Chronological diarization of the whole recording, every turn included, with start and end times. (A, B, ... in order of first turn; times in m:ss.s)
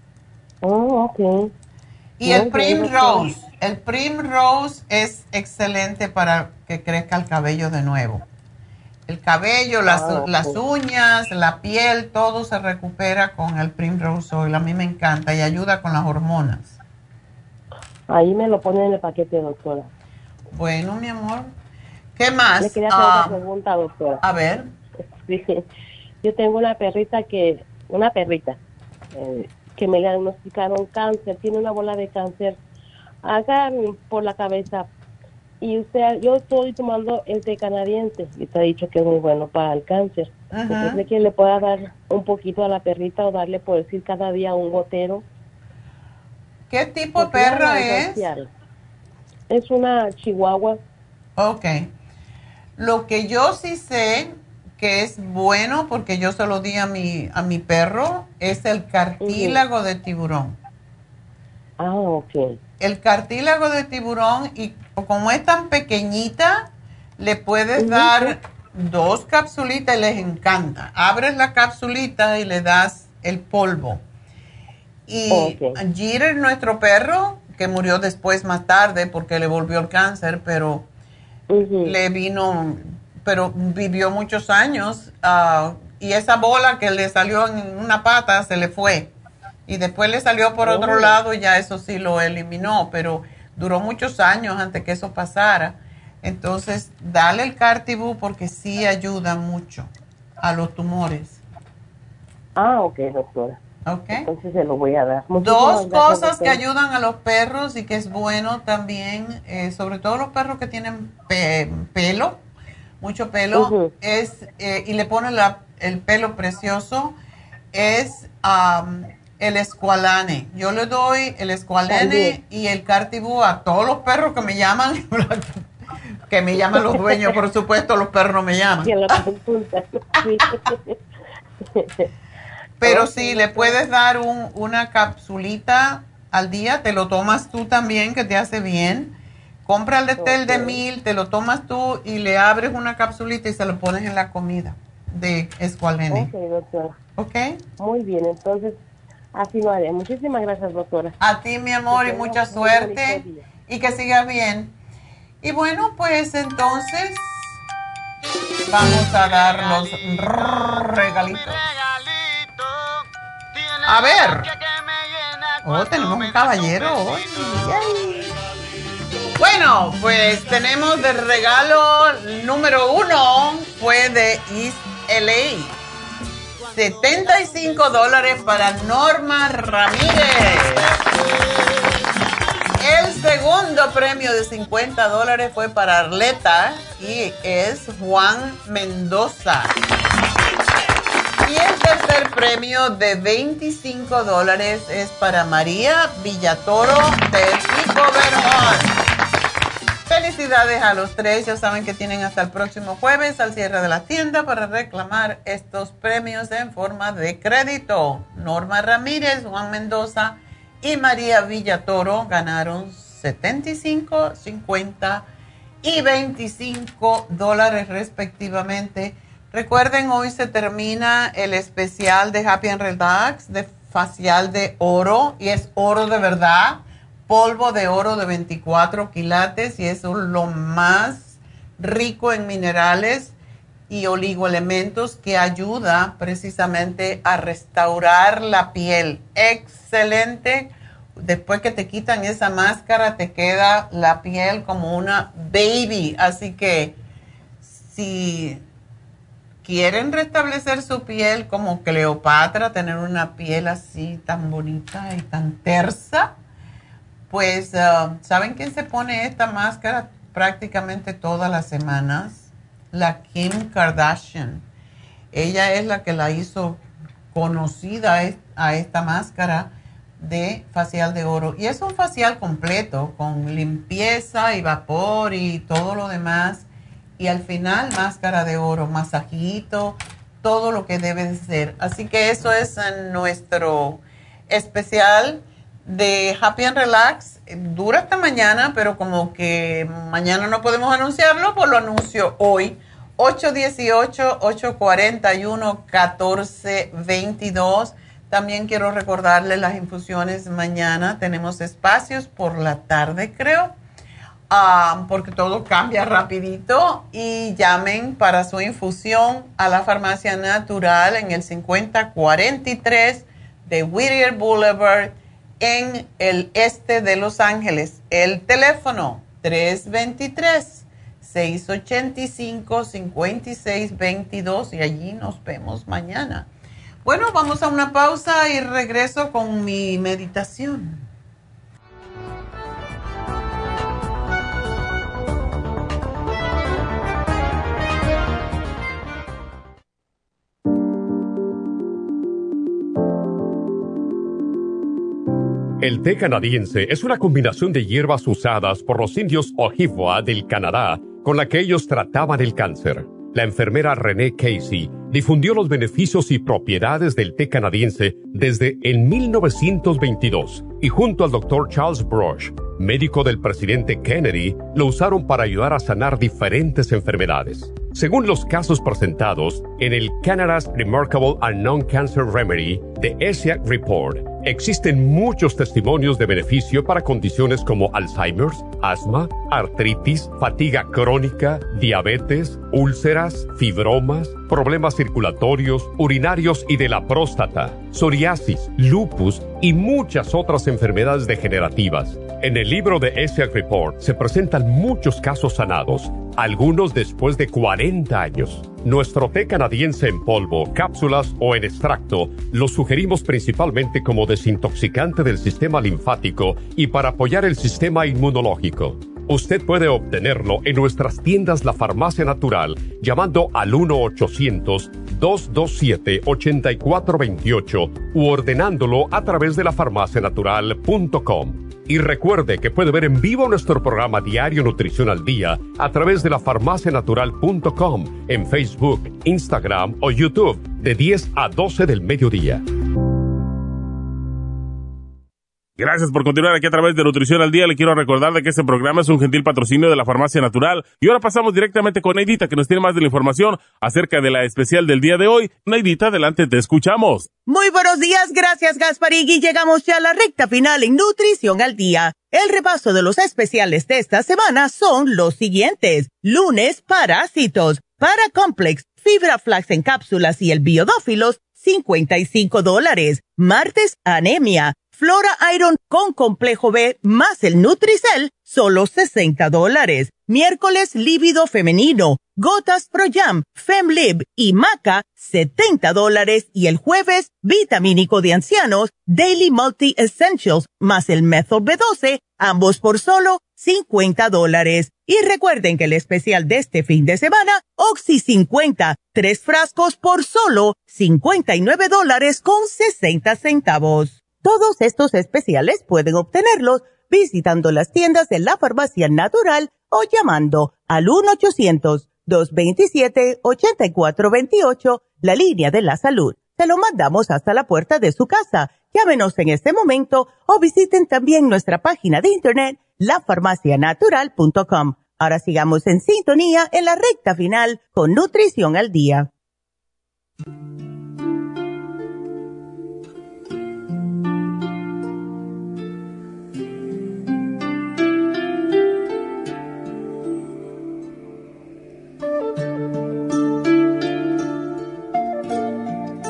0:00.6-0:01.5 A
0:02.2-0:08.2 B
0:02.2-0:03.3 A
0:09.1-0:16.8 B
0:09.9-0:10.6 A
0:18.1-0:19.9 A
0:20.5-0:21.5 B
0:22.2-0:23.4 B
0:22.6-0:24.2 A
0:24.2-0:24.7 B
0:25.2-0:25.6 A
0:26.2-0:28.6 A
0:29.1-0:32.6 A
0:33.2-0:34.9 A
0:35.6-0:45.2 A
0:40.5-0:41.0 B
0:46.7-0:48.3 B
0:47.2-0:48.5 A
0:49.5-0:50.8 A
0:51.4-0:51.9 B
0:52.8-1:00.6 B
0:59.2-0:59.6 A
1:01.8-1:02.5 A
1:02.8-1:14.0 B
1:07.8-1:08.4 A
1:15.1-1:20.9 B
1:15.3-1:15.8 A
1:21.5-1:22.0 A
1:21.8-1:29.1 B
1:29.7-1:39.9 B
1:30.6-1:31.2 A
1:40.4-1:41.4 B
1:42.6-1:43.6 A
1:43.9-1:44.3 B
1:44.1-1:46.6 A
1:45.4-1:52.4 B
1:53.0-1:57.2 B
1:53.5-1:53.9 A
1:57.7-2:05.6 B
2:01.9-2:02.4 A
2:06.3-2:09.2 B
2:06.6-2:07.4 A
2:08.8-2:11.0 A
2:11.8-2:12.1 A
2:12.8-2:19.2 B
2:12.8-2:13.8 A
2:19.7-2:26.3 B
2:20.2-2:20.8 A
2:26.1-2:27.0 A
2:27.2-2:27.6 B
2:27.8-2:28.8 A
2:29.3-2:31.2 A
2:31.2-2:34.8 B
2:31.9-2:33.5 A
2:35.4-2:37.6 B
2:38.7-2:41.9 B
2:43.8-2:44.6 B
2:45.6-2:48.3 B
2:49.4-2:55.8 B
2:56.7-3:01.0 B
3:02.8-3:09.7 B
3:11.4-3:19.0 B
3:20.1-3:35.3 B
3:35.8-3:53.4 B
3:53.9-4:07.0 B
4:07.6-4:08.6 B
4:09.6-4:16.3 B
4:17.3-4:24.6 B
4:25.3-4:26.8 B
4:27.3-4:36.7 B
4:37.2-5:03.7 B
5:04.5-5:26.5 B
5:27.0-5:31.0 B
5:45.8-7:12.6 C
7:15.8-7:27.3 D
7:27.5-8:39.3 E